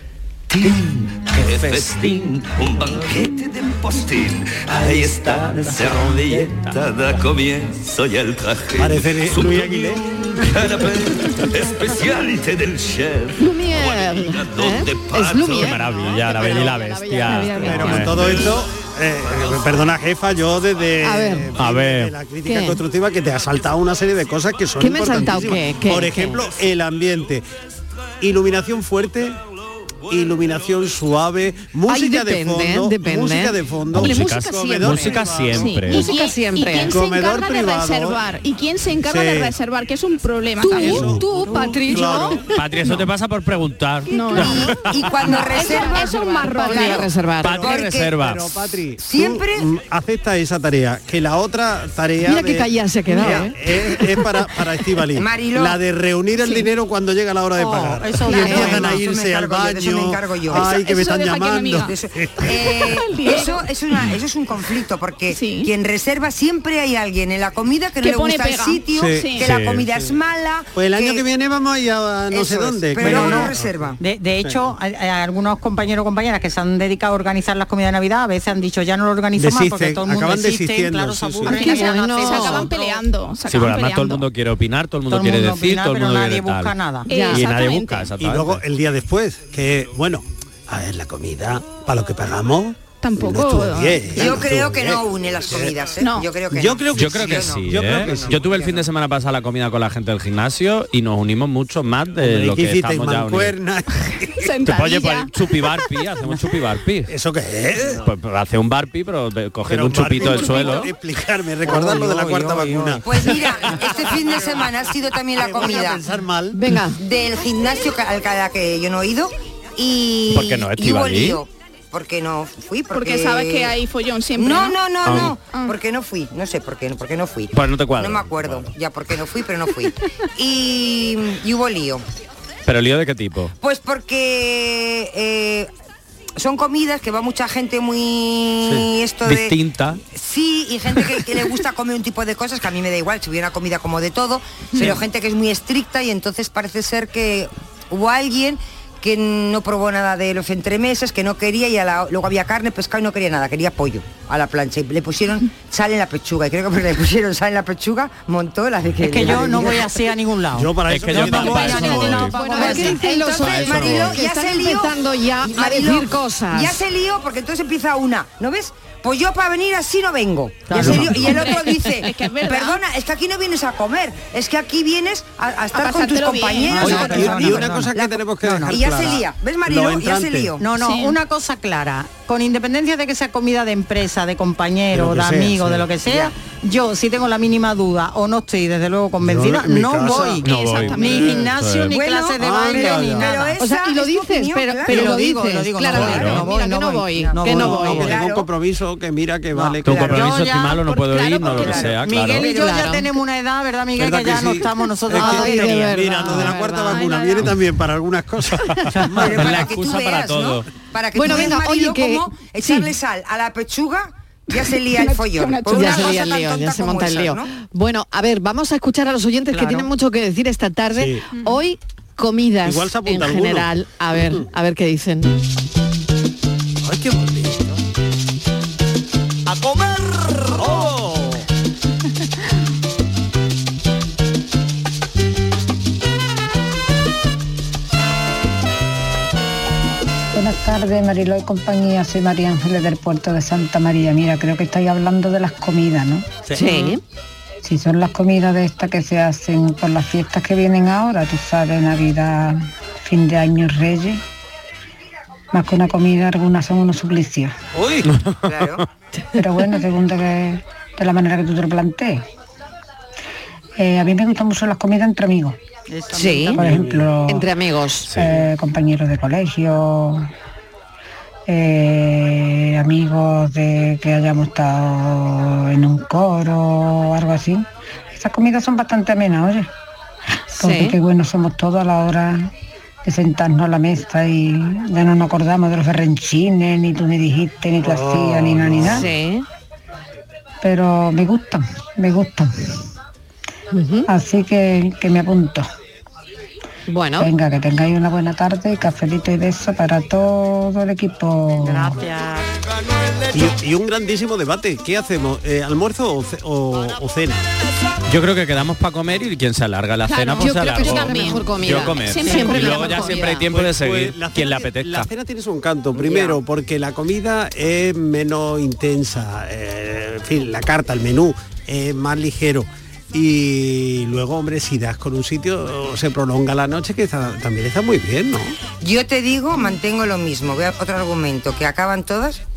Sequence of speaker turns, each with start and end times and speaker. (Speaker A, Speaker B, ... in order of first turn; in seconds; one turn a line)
Speaker A: 0.5-15.7
Speaker B: 8.8-10.1
Speaker C: 13.4-18.5
Speaker D: 15.5-18.5
Speaker B: 17.6-27.5
Speaker C: 21.0-21.5
Speaker D: 21.6-22.1
Speaker C: 22.4-22.8
Speaker C: 24.8-26.4
Speaker B: 28.2-29.4
Speaker B: 30.1-35.7
Speaker C: 31.9-35.2
Speaker D: 33.9-36.1
Speaker E: 35.5-41.2
Speaker C: 35.8-37.0
Speaker B: 36.8-38.2
Speaker B: 39.0-39.5
Speaker C: 40.6-42.5
Speaker B: 40.8-42.6
Speaker D: 42.5-44.9
Speaker E: 44.1-44.8
Speaker F: 44.3-48.1
Speaker E: 45.4-47.0
Speaker C: 45.5-47.6
Speaker D: 47.4-48.6
Speaker B: 47.7-62.9
Speaker F: 49.0-49.7
Speaker C: 52.2-54.1
Speaker F: 55.1-55.8
Speaker G: 57.6-59.6
Speaker E: 58.3-58.6
Speaker C: 58.4-58.9
Speaker F: 58.6-60.8
Speaker E: 60.6-61.9
Speaker F: 61.8-71.3
Speaker E: 62.9-63.6
Speaker E: 65.3-65.7
Speaker E: 68.0-69.5
Speaker B: 68.9-70.2
Speaker D: 69.5-69.8
Speaker B: 70.8-74.7
Speaker F: 72.3-74.0
Speaker G: 73.0-83.0
Speaker B: 79.4-81.6
Speaker C: 81.5-82.7
Speaker E: 81.5-84.2
Speaker D: 83.5-86.7
Speaker G: 85.1-87.1
Speaker E: 87.1-88.1
Speaker C: 87.1-87.5
Speaker D: 87.3-88.6
Speaker B: 88.2-95.8
Speaker E: 93.0-94.3
Speaker F: 94.1-98.8
Speaker E: 96.0-96.3
Speaker B: 96.5-98.5
Speaker D: 96.9-103.6
Speaker B: 102.2-104.5
Speaker E: 104.4-105.3
Speaker D: 104.7-107.1
Speaker B: 107.1-108.1
Speaker D: 108.0-110.9
Speaker B: 109.7-114.6
Speaker G: 111.7-113.0
Speaker F: 113.0-116.0
Speaker B: 115.4-116.6
Speaker C: 116.5-117.0
Speaker F: 117.0-123.8
Speaker D: 120.3-121.4
Speaker E: 122.9-124.8
Speaker F: 124.4-132.0
Speaker D: 125.0-125.3
Speaker D: 127.5-128.7
Speaker D: 132.7-133.5
Speaker F: 133.6-135.7
Speaker F: 136.4-160.0
Speaker D: 139.2-140.0
Speaker G: 159.0-160.7
Speaker B: 160.6-162.3
Speaker D: 160.9-162.8
Speaker G: 161.3-163.0
Speaker E: 161.3-162.2
Speaker F: 161.5-180.7
Speaker C: 162.0-166.8
Speaker D: 163.3-164.2
Speaker C: 170.7-171.3
Speaker B: 170.8-171.3
Speaker E: 171.3-172.8
Speaker E: 175.7-177.2
Speaker G: 176.7-179.0
Speaker B: 176.7-180.6
Speaker G: 180.6-193.6
Speaker E: 180.7-181.2
Speaker B: 184.9-185.9
Speaker F: 186.1-186.3
Speaker B: 189.2-190.4
Speaker E: 190.4-191.4
Speaker D: 190.4-192.0
Speaker B: 191.1-191.3
Speaker F: 191.9-195.2
Speaker B: 192.4-193.3
Speaker C: 193.6-198.1
Speaker G: 194.9-198.2
Speaker D: 195.9-196.5
Speaker B: 197.4-200.4
Speaker F: 197.9-198.5
Speaker G: 199.6-200.8
Speaker D: 199.8-202.5
Speaker E: 200.8-201.9
Speaker F: 201.5-202.9
Speaker G: 201.9-206.5
Speaker C: 202.4-203.1
Speaker B: 204.0-209.8
Speaker C: 205.1-207.5
Speaker F: 209.2-217.5
Speaker D: 209.3-210.7
Speaker C: 211.2-212.9
Speaker E: 214.5-216.2
Speaker C: 215.7-225.3
Speaker B: 220.9-221.2
Speaker E: 221.3-221.6
Speaker B: 222.6-223.7
Speaker B: 226.8-227.7
Speaker B: 230.4-231.4
Speaker H: 240.3-246.3
Speaker C: 246.6-247.0
Speaker H: 247.6-254.2
Speaker H: 255.5-257.6
Speaker B: 257.8-258.1
Speaker D: 258.1-258.8
Speaker F: 258.5-258.9
Speaker H: 259.4-262.3
Speaker H: 263.8-265.6
Speaker G: 265.9-266.7
Speaker C: 266.1-266.6
Speaker H: 266.6-267.5
Speaker B: 266.6-267.1
Speaker C: 267.3-268.1
Speaker D: 268.1-268.4
Speaker H: 268.1-270.3
Speaker H: 271.5-279.7
Speaker C: 280.6-281.0
Speaker H: 280.6-282.5
Speaker H: 283.0-289.1
Speaker B: 287.8-289.1
Speaker C: 288.9-289.5
Speaker H: 290.6-292.8
Speaker C: 293.7-294.1
Speaker H: 294.1-295.7
Speaker C: 296.9-297.3
Speaker H: 297.2-302.0
Speaker G: 301.6-302.5
Speaker B: 303.3-307.4
Speaker D: 308.1-315.1
Speaker E: 310.1-311.5
Speaker C: 310.3-313.4
Speaker E: 312.1-313.1
Speaker B: 313.4-328.6
Speaker F: 315.9-316.4
Speaker F: 328.8-332.4